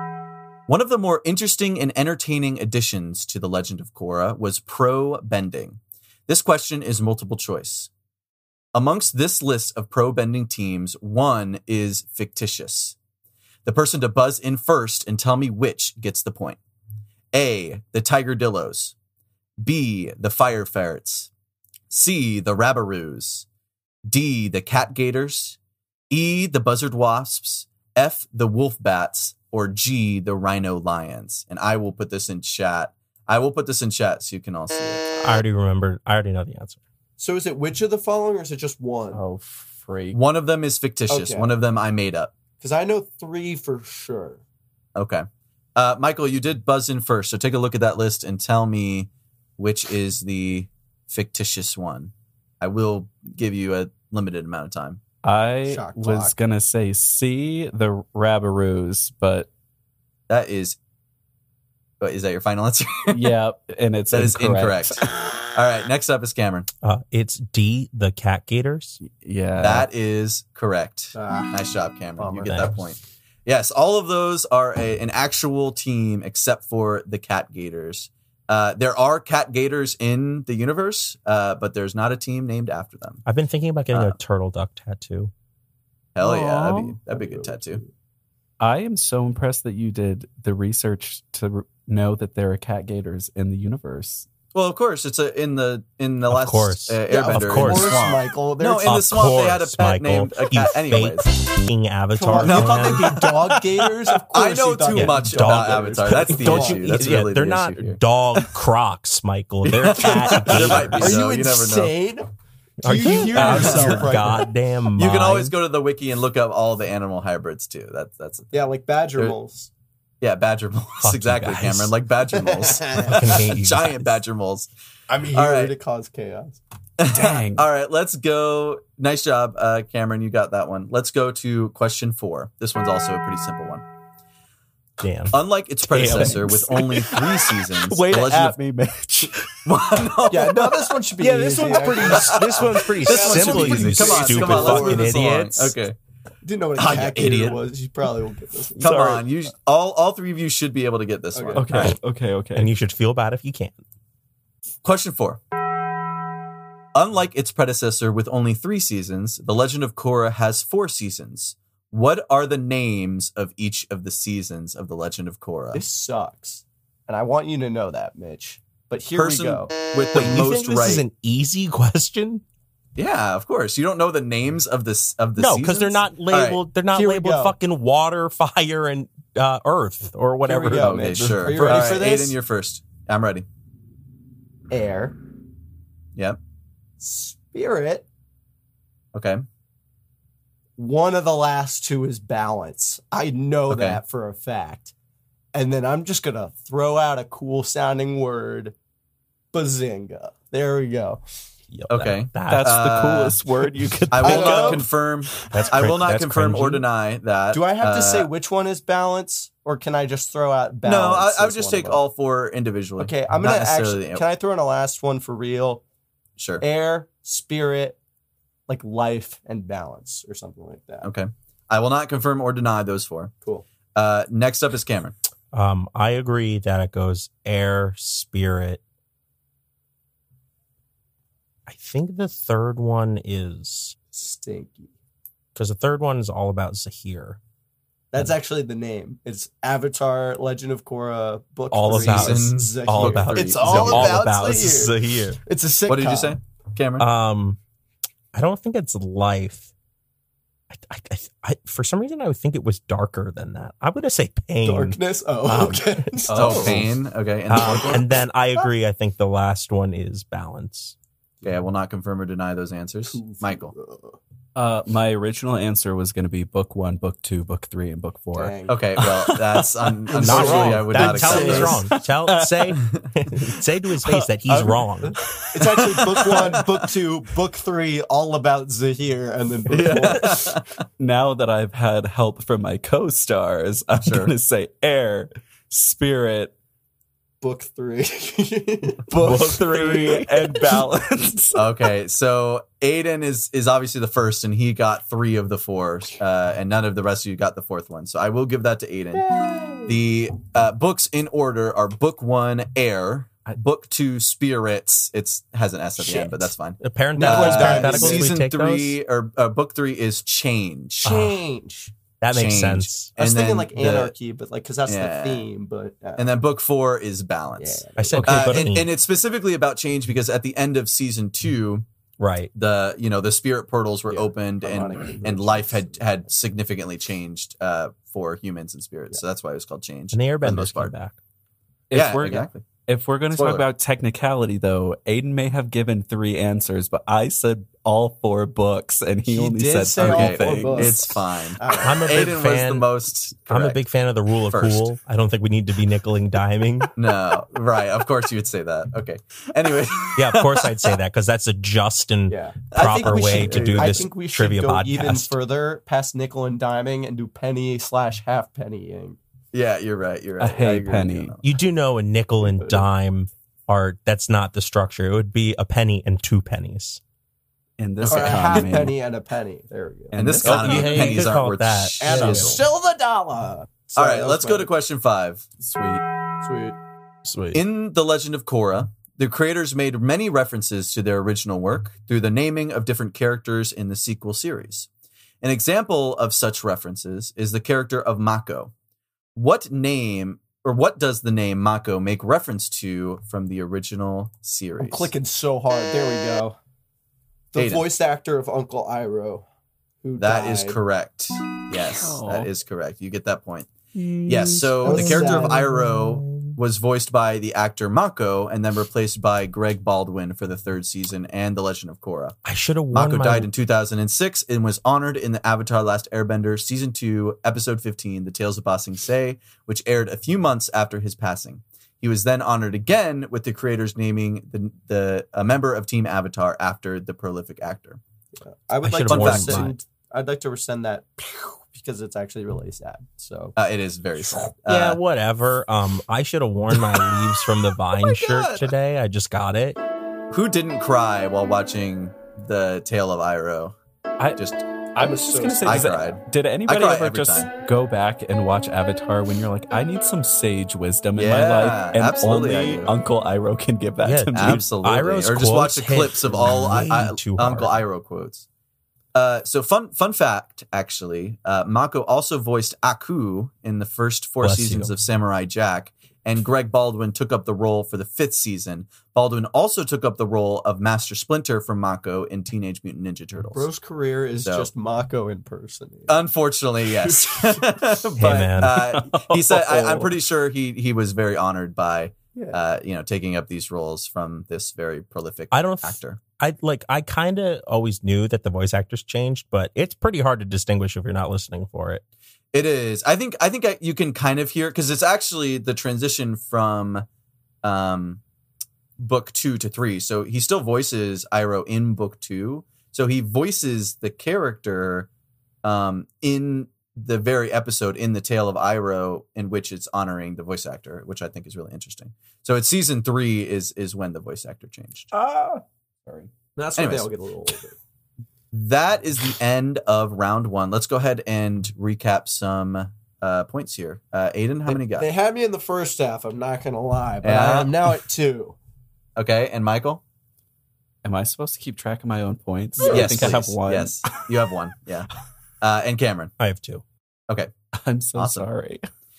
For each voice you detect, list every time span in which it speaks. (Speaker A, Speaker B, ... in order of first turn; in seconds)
Speaker A: 0.7-7.9, 8.7-12.9, 13.7-16.6, 17.3-18.9, 19.6-21.3, 21.9-23.4, 24.1-25.6, 26.1-35.2, 40.1-42.3, 44.9-55.0, 60.3-60.8, 62.0-63.3, 64.1-66.7, 69.6-83.2, 86.1-87.8, 94.5-101.4, 102.3-103.2, 104.3-108.0, 109.6-111.9, 113.3-114.2, 115.0-118.5, 120.2-124.7, 125.3-125.7, 127.0-133.8, 135.3-138.6, 139.6-140.9, 142.1-145.9, 146.8-147.6, 148.8-151.9, 154.8-155.4, 156.9-165.8, 169.1-171.0, 172.9-176.6, 180.7-183.4, 189.1-189.4, 193.7-194.0, 201.9-203.4, 204.1-208.3, 210.8-214.2, 216.4-216.6, 221.0-223.3, 223.9-225.1, 241.9-244.3, 245.9-247.1, 256.3-258.2, 261.4-263.7, 268.7-271.9, 279.7-280.7, 284.0-284.3, 291.5-299.2, 299.9-311.1, 312.3-314.1, 314.9-315.4, 316.2-321.8, 322.5-330.9, 331.9-332.6, 333.3-333.6, 340.0-343.8, 344.5-344.9, 346.9-351.0, 352.7-354.1, 359.5-361.4, 368.0-368.9, 370.1-372.6, 373.9-375.5, 377.5-384.9, 385.4-388.7, 389.4-395.1, 397.5-397.8, 400.2-403.7, 404.3-412.4, 412.9-428.0, 429.1-429.7, 433.6-435.0, 438.0-438.7, 440.3-443.8, 444.4-444.6, 445.6-447.5, 451.1-452.9, 454.3-458.4, 459.1-473.7, 476.1-486.2, 492.5-497.1, 497.6-498.2, 499.0-505.1, 505.6-515.1, 516.8-517.1, 518.5-525.1, 527.2-527.9, 529.1-530.0, 532.8-535.1, 535.6-536.3, 538.1-538.5
Speaker B: 35.2-36.8, 66.8-69.0, 72.4-72.7, 83.2-85.3, 96.3-97.9, 98.8-103.5, 104.9-111.1, 112.8-115.5, 121.0-121.9, 123.0-124.2, 135.0-135.3, 135.9-137.2, 141.2-145.7, 152.5-153.8, 170.1-172.4, 175.4-181.0, 201.7-202.8, 203.8-204.8, 205.5-206.8, 225.5-228.8, 231.7-233.9, 235.6-237.4, 241.7-245.4, 247.0-247.6, 248.3-249.7, 250.7-256.1, 257.5-260.9, 270.2-275.2, 289.2-290.1, 306.8-308.9, 311.0-311.4, 312.2-313.1, 318.0-318.9, 322.2-322.5, 330.1-331.1, 341.8-342.8, 343.5-346.9, 350.1-355.3, 361.4-367.0, 370.4-372.6, 377.2-377.6, 403.9-406.6, 412.4-413.5, 428.8-429.7, 434.7-439.8, 454.0-457.8, 464.4-464.9, 478.2-478.9, 485.5-492.0, 536.4-536.8
Speaker C: 37.2-39.2, 41.1-41.5, 42.6-44.4, 55.6-56.3, 71.1-71.6, 72.2-72.6, 87.1-87.9, 97.1-99.0, 102.1-107.2, 110.4-112.3, 112.8-114.5, 118.5-119.7, 122.5-123.3, 125.1-126.6, 140.3-145.2, 146.4-148.8, 151.3-151.7, 165.7-169.7, 176.9-177.5, 180.4-182.3, 184.7-185.2, 187.0-188.1, 190.8-194.9, 195.5-198.7, 199.5-201.2, 204.2-204.8, 207.5-212.0, 213.0-215.8, 216.6-218.0, 218.7-221.1, 234.1-234.9, 238.1-246.4, 254.6-256.9, 263.1-264.2, 268.3-269.0, 270.1-271.8, 275.5-280.6, 287.4-289.8, 299.1-300.0, 306.1-306.3, 307.1-308.3, 311.0-311.9, 313.2-316.3, 317.6-318.4, 324.1-326.3, 339.3-342.2, 352.3-359.2, 362.4-362.9, 368.1-370.2, 372.0-374.7, 376.4-376.8, 394.8-396.6, 397.5-399.4, 400.0-400.8, 404.8-405.7, 428.4-433.5, 445.0-446.1, 473.5-476.2, 477.0-477.6, 515.1-515.6, 516.5-517.8, 524.7-528.5, 532.8-533.4
Speaker D: 39.1-40.2, 55.2-59.5, 63.1-65.1, 69.0-69.9, 86.2-87.0, 88.6-94.3, 127.1-127.7, 135.9-139.6, 148.8-149.3, 151.5-152.7, 181.5-181.8, 202.5-204.7, 256.3-256.9, 264.5-268.5, 269.1-269.6, 271.2-272.8, 273.4-276.8, 281.0-286.5, 289.1-291.8, 318.1-318.7, 331.9-341.1, 360.4-361.3, 367.8-368.9, 370.1-371.3, 375.6-376.0, 401.9-402.5, 444.9-454.6, 478.7-480.1, 531.0-534.1, 537.7-538.8